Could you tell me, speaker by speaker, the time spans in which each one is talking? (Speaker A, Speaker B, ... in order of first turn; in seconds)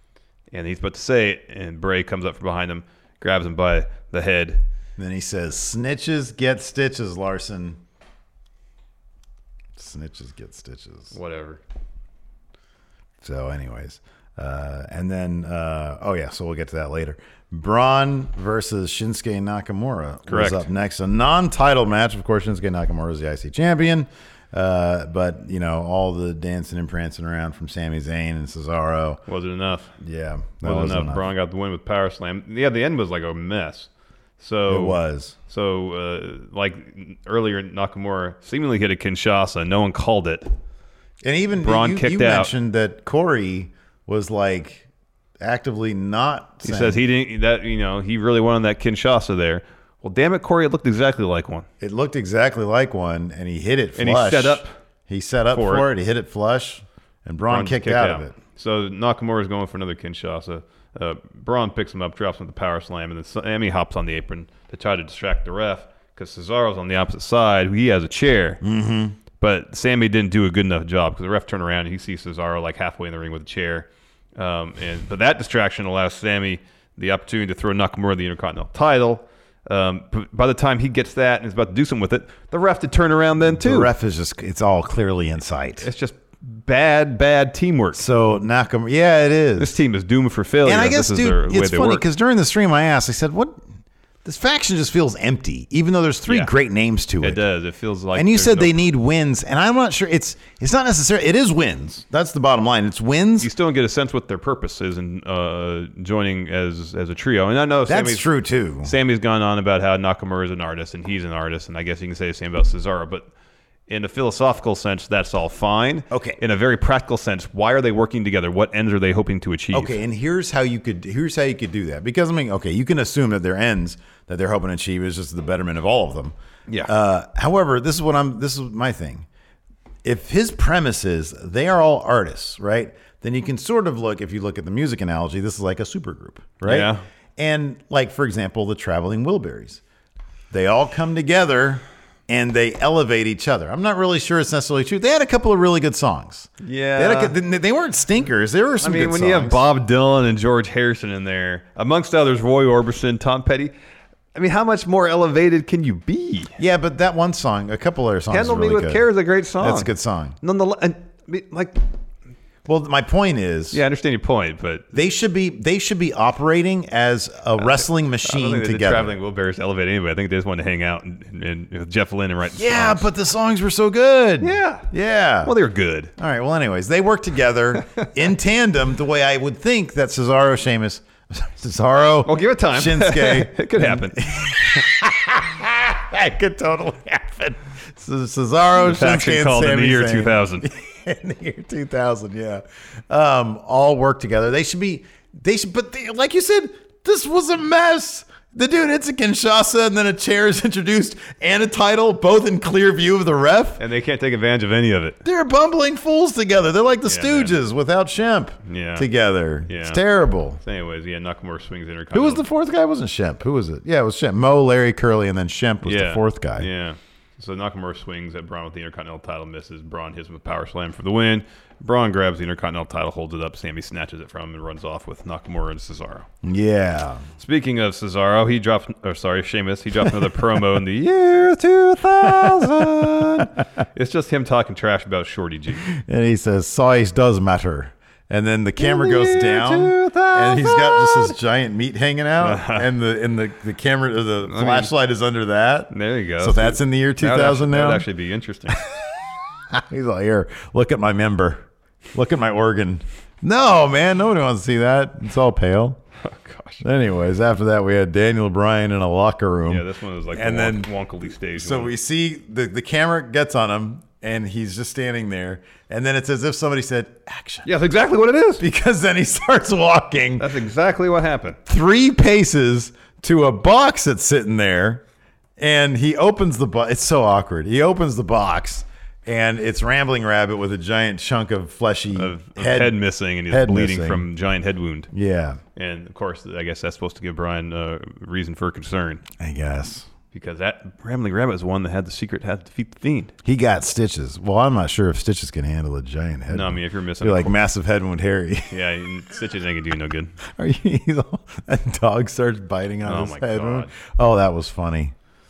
Speaker A: 0.5-4.6, 11.1-11.6, 20.3-20.7, 29.3-29.9, 30.6-33.9, 34.4-40.5, 41.6-42.5, 46.6-51.7, 54.0-54.7, 55.5-55.9, 57.5-68.6, 69.4-83.9, 85.8-88.0, 89.6-92.0, 96.3-96.5, 97.2-98.8, 103.4-108.3, 108.8-113.3, 113.9-120.0, 136.6-137.0, 146.6-147.3, 148.8-153.7, 154.3-156.5, 158.3-159.9, 160.4-161.8, 163.7-164.9, 167.6-173.1, 174.4-174.9, 175.4-176.1, 182.2-184.8, 188.8-190.7, 203.8-205.2, 207.1-207.6, 208.7-209.1, 209.7-210.0, 210.6-212.4, 215.8-226.3, 227.4-235.9, 238.8-241.3, 242.4-242.9, 244.4-244.9, 245.9-248.8, 256.2-256.8, 259.7-261.9, 267.6-268.6, 270.4-271.6, 282.1-285.1, 285.8-289.2, 290.3-293.3, 296.5-297.6, 298.7-300.4, 303.0-303.9
Speaker B: 5.0-7.8, 9.8-11.2, 13.2-29.2, 30.0-31.3, 34.7-35.4, 41.2-44.9, 45.4-47.0, 51.8-58.3, 68.6-69.2, 83.4-85.9, 87.9-89.8, 90.6-93.7, 94.2-97.4, 98.1-103.5, 107.9-108.9, 116.1-116.4, 119.7-129.3, 130.0-139.8, 140.5-149.6, 156.6-159.1, 159.6-160.4, 162.7-163.8, 164.9-169.2, 172.5-175.5, 176.2-203.8, 205.2-210.6, 212.1-216.7, 226.4-227.3, 232.2-233.6, 235.9-248.1, 248.7-249.0, 249.7-256.0, 256.8-260.9, 261.6-267.7, 268.6-270.5, 271.7-275.0, 275.6-284.3, 285.1-285.6, 289.4-290.1, 293.4-298.8, 300.5-305.1